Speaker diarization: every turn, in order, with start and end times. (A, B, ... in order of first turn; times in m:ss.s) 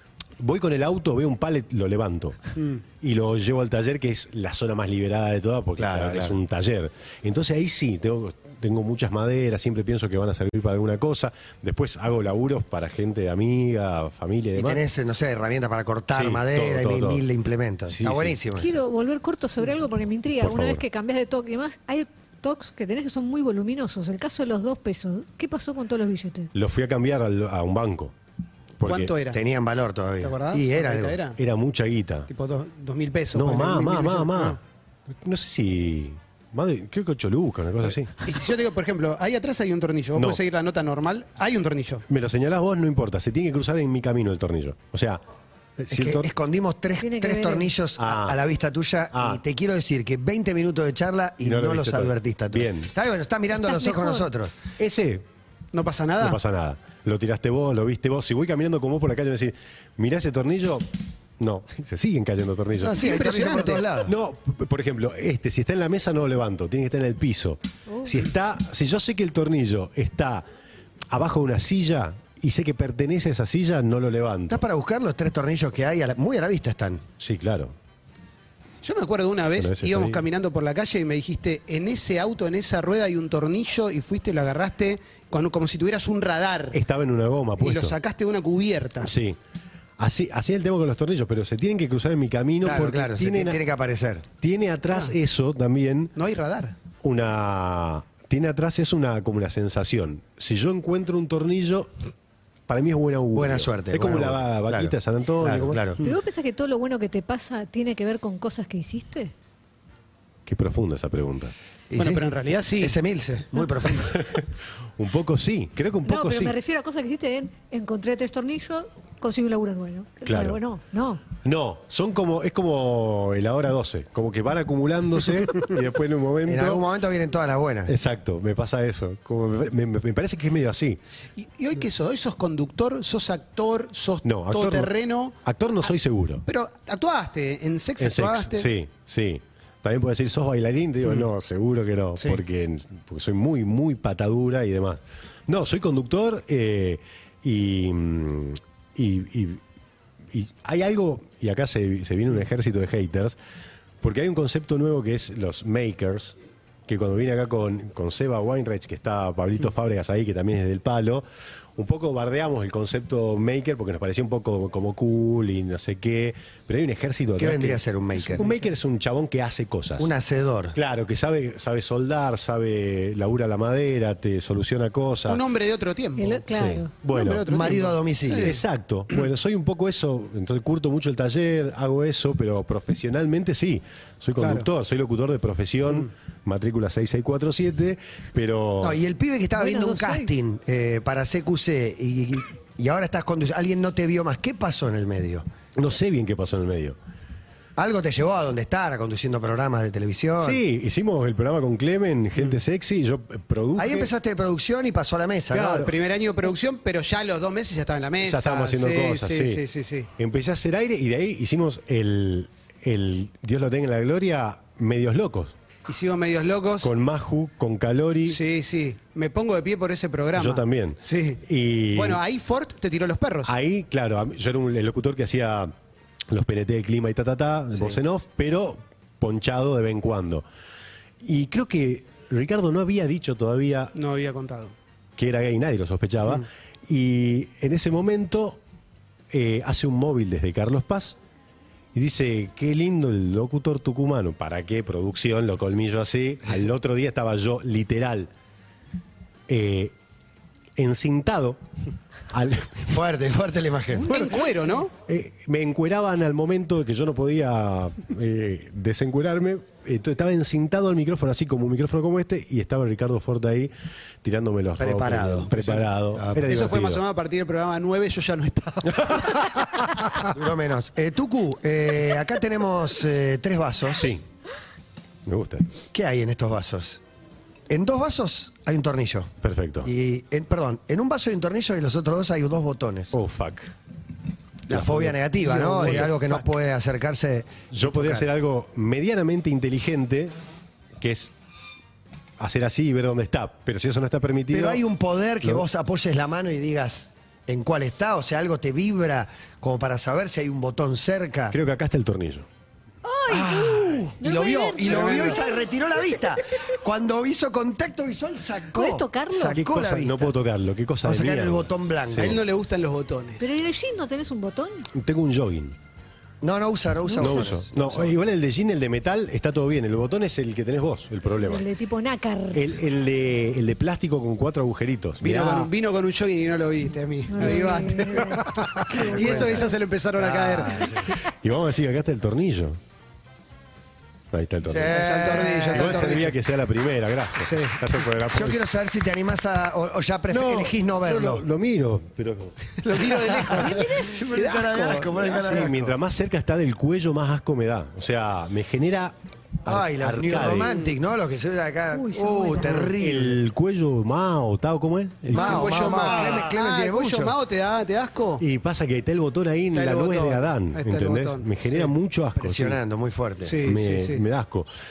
0:00.4-0:14.8 A
0:05.8-0:06.4 B
0:14.6-0:18.7 B
0:16.1-0:17.2 A
0:17.9-0:18.4 A
0:18.6-0:26.5 C
0:20.4-0:20.8 A
0:26.5-0:28.1 A
0:28.8-0:29.1 A
0:28.8-0:29.4 D
0:29.3-0:31.2 B
0:30.2-0:31.4 D
0:31.4-0:32.3 A
0:32.3-0:34.6 D
0:33.3-0:34.6 A
0:35.2-0:38.1 A
0:38.2-0:42.0 D
0:42.1-0:45.2 A
0:45.8-0:46.3 A
0:45.9-0:54.5 B
0:47.0-0:47.7 C
0:48.0-0:48.4 A
0:49.1-0:49.4 A
0:51.4-0:52.9 A
0:53.6-0:54.3 C
0:54.8-0:55.2 A
0:55.7-0:56.4 D
0:56.2-1:10.4 A
1:02.8-1:04.1 B
1:02.9-1:04.0 D
1:11.1-1:14.6 A
1:14.5-1:17.0 B
1:17.2-1:17.7 A
1:18.8-1:26.8 D
1:19.6-1:20.2 A
1:26.7-1:27.9 A
1:27.6-1:29.1 D
1:29.0-1:29.4 A
1:30.0-1:33.6 A
1:32.6-1:34.2 B
1:34.4-1:36.1 A
1:36.2-1:36.8 D
1:37.0-1:41.9 A
1:42.7-1:45.8 A
1:43.3-1:46.0 B
1:46.0-1:49.3 C
1:50.5-1:51.5 A
1:51.9-1:52.2 B
1:52.0-1:53.0 D
1:52.8-1:54.2 B
1:54.0-1:56.5 A
1:56.0-2:01.2 C
2:00.2-2:00.6 A
2:01.4-2:06.8 A
2:06.4-2:07.9 B
2:07.9-2:11.0 A
2:11.4-2:15.4 D
2:14.2-2:14.9 A
2:15.4-2:16.4 A
2:16.4-2:18.7 D
2:18.0-2:29.6 A
2:30.3-2:33.4 A
2:34.0-2:36.3 A
2:36.9-2:41.2 A
2:41.8-2:50.1 A
2:47.4-2:48.5 B
2:50.0-2:50.8 B
2:50.7-2:55.4 A
2:55.3-2:56.4 D
2:56.2-2:56.9 C
2:56.5-2:57.5 A
2:57.1-2:59.2 D
2:57.5-2:58.6 B
2:58.3-3:09.0 A
3:04.4-3:04.7 D
3:08.8-3:15.4 B
3:09.6-3:10.3 C
3:15.7-3:17.0 A
3:17.8-3:20.6 B
3:20.4-3:24.1 A
3:23.8-3:25.9 B
3:25.5-3:25.9 A
3:25.8-3:30.1 D
3:28.2-3:29.6 A
3:30.2-3:35.5 A
3:35.8-3:36.9 D
3:36.8-3:38.4 A
3:38.2-3:41.4 D
3:40.4-3:42.2 A
3:41.9-3:43.5 D
3:43.4-3:45.7 A
3:46.3-3:50.4 A
3:51.2-3:53.9 A
3:53.9-3:54.7 D
3:55.2-3:58.6 A
3:59.3-4:01.2 A
4:01.9-4:08.3 A
4:09.5-4:09.9 A
4:10.8-4:11.6 A
4:12.3-4:12.9 A
4:12.8-4:14.3 B
4:14.0-4:14.9 D
4:15.0-4:23.7 A
4:24.2-4:27.0 A
4:24.8-4:25.5 B
4:25.6-4:25.8 D
4:26.2-4:26.5 B
4:26.4-4:29.6 D
4:28.9-4:30.3 A
4:30.3-4:34.1 B
4:34.0-4:34.2 A
4:35.2-4:35.7 A
4:35.9-4:37.0 B
4:37.7-4:39.3 B
4:39.4-4:39.9 A
4:39.8-4:43.2 B
4:43.1-4:43.7 A
4:44.7-4:48.2 B
4:44.7-4:46.1 A
4:45.4-4:46.4 D
4:47.7-4:50.3 A
4:51.0-4:51.3 A
4:52.4-4:54.8 A
4:54.5-5:01.6 B
5:01.5-5:02.4 A
5:03.0-5:06.2 C
5:03.3-5:10.3 B
5:04.8-5:05.4 D
5:08.7-5:09.6 C
5:09.5-5:12.4 A
5:11.0-5:12.4 B
5:12.1-5:13.6 D
5:13.4-5:14.9 C
5:14.9-5:15.8 A
5:16.4-5:18.0 B
5:17.2-5:21.6 A
5:21.3-5:22.7 C
5:22.5-5:25.7 A
5:25.2-5:31.1 D
5:27.3-5:29.7 C
5:28.4-5:28.8 A
5:29.1-5:31.1 B
5:31.2-5:32.8 A
5:34.3-5:35.0 A
5:34.6-5:36.3 B
5:34.9-5:36.4 D
5:35.7-5:38.6 A
5:37.4-5:37.8 D
5:38.3-5:41.4 B
5:40.3-5:43.2 A
5:42.8-5:45.6 D
5:43.3-5:45.9 B
5:43.5-5:44.3 C
5:45.3-5:50.7 A
5:49.6-5:53.4 B
5:50.6-5:50.9 D
5:51.9-5:52.9 C
5:52.9-5:56.5 A
5:55.3-5:57.4 B
5:55.3-5:58.4 D
5:58.4-6:02.8 A
5:59.7-6:01.9 D
6:02.4-6:03.6 B
6:03.4-6:04.2 D
6:03.6-6:04.7 A